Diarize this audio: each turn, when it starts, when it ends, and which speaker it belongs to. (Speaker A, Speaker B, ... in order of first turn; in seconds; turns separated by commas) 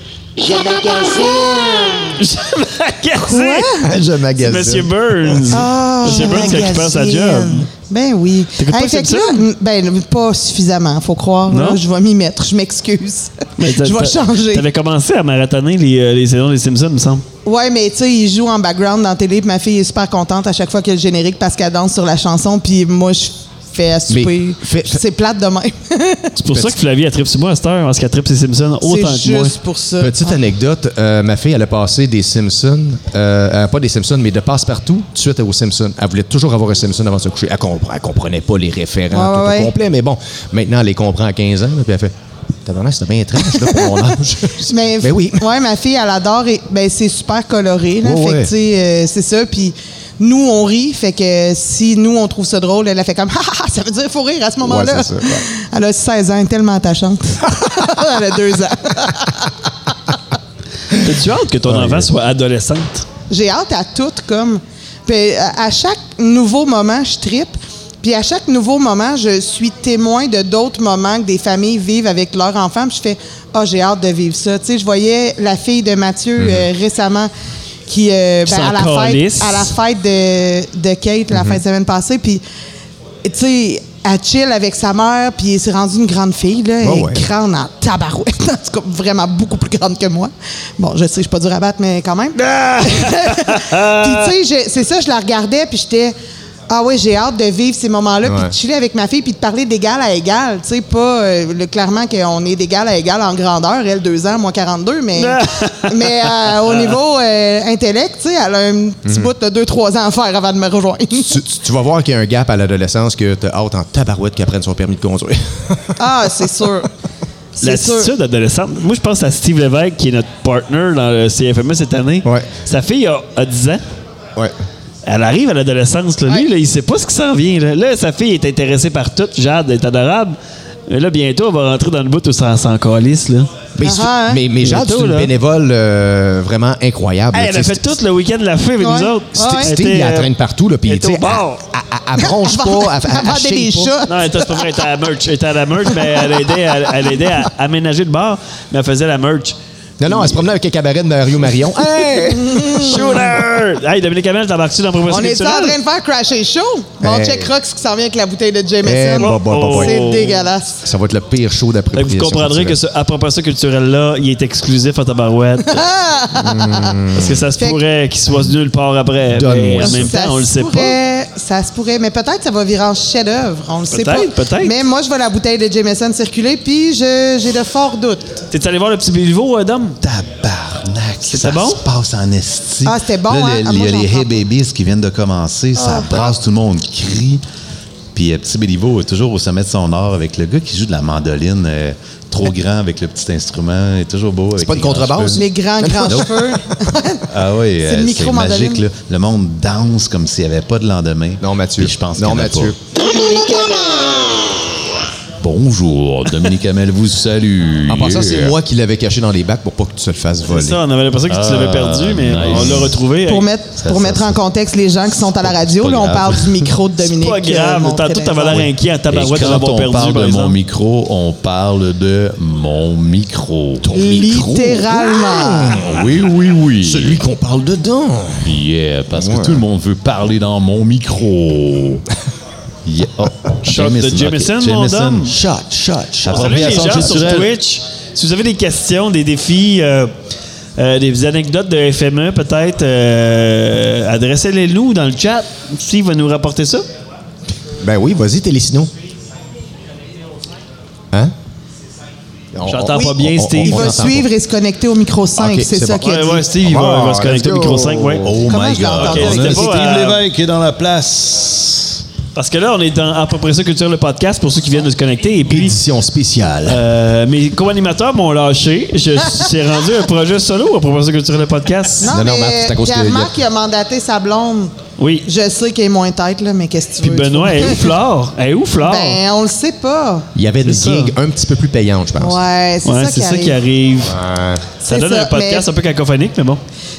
Speaker A: 0.5-7.7, Speaker B: 3.2-3.9, Speaker C: 3.8-5.4, Speaker B: 5.5-14.7, Speaker A: 8.6-9.4, Speaker A: 11.5-11.8, Speaker A: 13.6-17.2, Speaker B: 17.4-26.3, Speaker C: 24.1-25.0, Speaker A: 26.4-29.5, Speaker B: 28.8-30.4, Speaker C: 30.0-42.1, Speaker B: 39.1-39.7, Speaker C: 42.6-45.4, Speaker B: 43.5-59.5, Speaker C: 48.0-48.5, Speaker C: 54.6-55.5, Speaker A: 60.9-63.0, Speaker C: 61.7-62.1, Speaker B: 63.3-77.3, Speaker C: 76.4-76.7, Speaker B: 77.9-82.4, Speaker A: 78.5-79.7, Speaker C: 81.3-81.6, Speaker B: 83.2-96.1, Speaker C: 86.8-87.3, Speaker A: 92.4-94.3, Speaker B: 96.7-111.4, Speaker C: 98.2-98.5, Speaker A: 105.2-106.9, Speaker C: 111.3-116.7, Speaker B: 116.0-116.9, Speaker B: 117.6-118.1, Speaker A: 117.6-123.8, Speaker A: 125.0-130.3, Speaker A: 130.9-133.5, Speaker C: 133.8-137.8, Speaker B: 133.8-134.4, Speaker A: 134.6-135.3, Speaker A: 137.3-140.3, Speaker B: 138.8-139.8, Speaker C: 139.4-143.9, Speaker A: 140.8-141.6, Speaker B: 142.2-144.7, Speaker A: 144.1-150.4, Speaker B: 146.1-146.5, Speaker C: 150.0-153.3, Speaker B: 152.2-153.0, Speaker A: 152.7-155.8, Speaker B: 155.1-160.8, Speaker C: 157.0-157.5, Speaker C: 158.8-160.0, Speaker A: 159.2-160.4, Speaker C: 160.8-162.8, Speaker A: 161.9-165.8, Speaker B: 165.7-167.0, Speaker C: 166.3-167.4, Speaker A: 167.1-170.9, Speaker C: 169.3-170.1, Speaker B: 169.8-178.5, Speaker A: 173.9-174.7, Speaker A: 178.5-180.0, Speaker D: 180.0-187.4, Speaker A: 181.2-181.8, Speaker B: 182.8-184.3, Speaker B: 185.8-186.2, Speaker D: 188.1-195.4, Speaker C: 194.6-196.5, Speaker B: 195.3-197.3, Speaker D: 197.3-202.7, Speaker B: 197.8-198.8, Speaker C: 201.4-202.8, Speaker B: 203.1-204.2, Speaker D: 205.4-208.5, Speaker C: 207.9-210.8, Speaker A: 210.5-213.5, Speaker D: 211.3-213.0, Speaker B: 213.2-218.7, Speaker D: 213.8-214.4, Speaker D: 215.5-216.6, Speaker A: 217.0-220.6, Speaker D: 219.1-223.8, Speaker C: 223.8-226.2, Speaker B: 223.9-225.8, Speaker D: 225.7-227.2, Speaker C: 226.8-228.6, Speaker D: 228.4-232.0, Speaker C: 229.1-229.6, Speaker D: 232.8-235.3, Speaker A: 233.6-235.3, Speaker C: 235.3-237.2, Speaker D: 236.2-237.5, Speaker A: 236.3-240.1, Speaker A: 240.8-246.8, Speaker C: 247.8-248.9, Speaker C: 252.5-254.3, Speaker A: 252.6-254.0, Speaker B: 252.9-256.5, Speaker C: 255.3-259.5, Speaker A: 256.0-258.3, Speaker D: 258.2-262.0, Speaker B: 258.4-259.6, Speaker A: 259.0-260.2, Speaker A: 262.3-265.8, Speaker C: 265.4-266.8, Speaker A: 266.7-272.1, Speaker B: 272.0-274.7, Speaker C: 272.1-273.3, Speaker A: 275.0-275.3, Speaker B: 275.2-277.9, Speaker A: 277.0-279.2, Speaker B: 278.8-280.3, Speaker C: 280.3-282.4, Speaker A: 280.6-281.1, Speaker B: 282.2-283.6, Speaker A: 282.8-284.2, Speaker C: 284.0-284.7, Speaker B: 284.8-285.6, Speaker A: 284.9-286.6